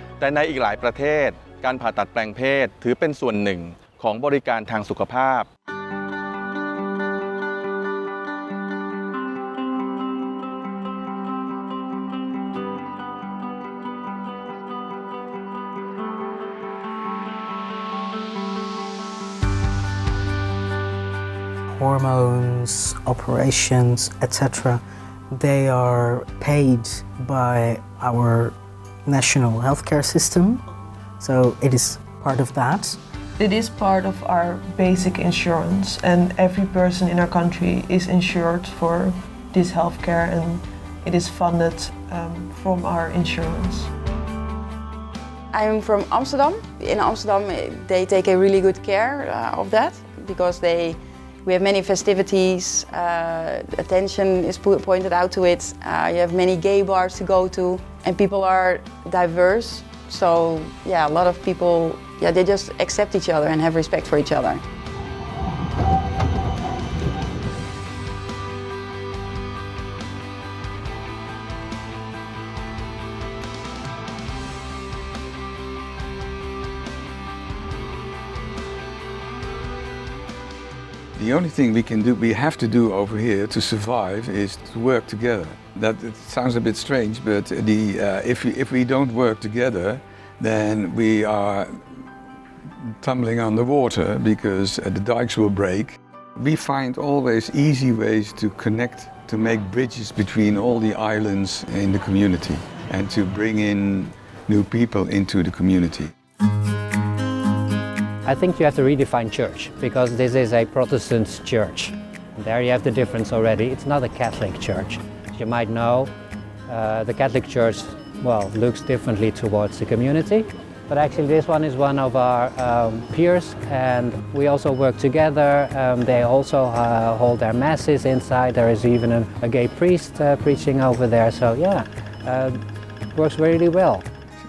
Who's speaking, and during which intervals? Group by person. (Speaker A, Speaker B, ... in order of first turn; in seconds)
Speaker A: 0.2-5.5
Speaker B: 21.7-30.6, 31.2-33.0
Speaker C: 33.4-43.9
Speaker D: 45.5-64.6
Speaker E: 81.2-91.8, 93.0-106.1
Speaker F: 108.2-116.1, 116.7-132.6, 133.1-134.1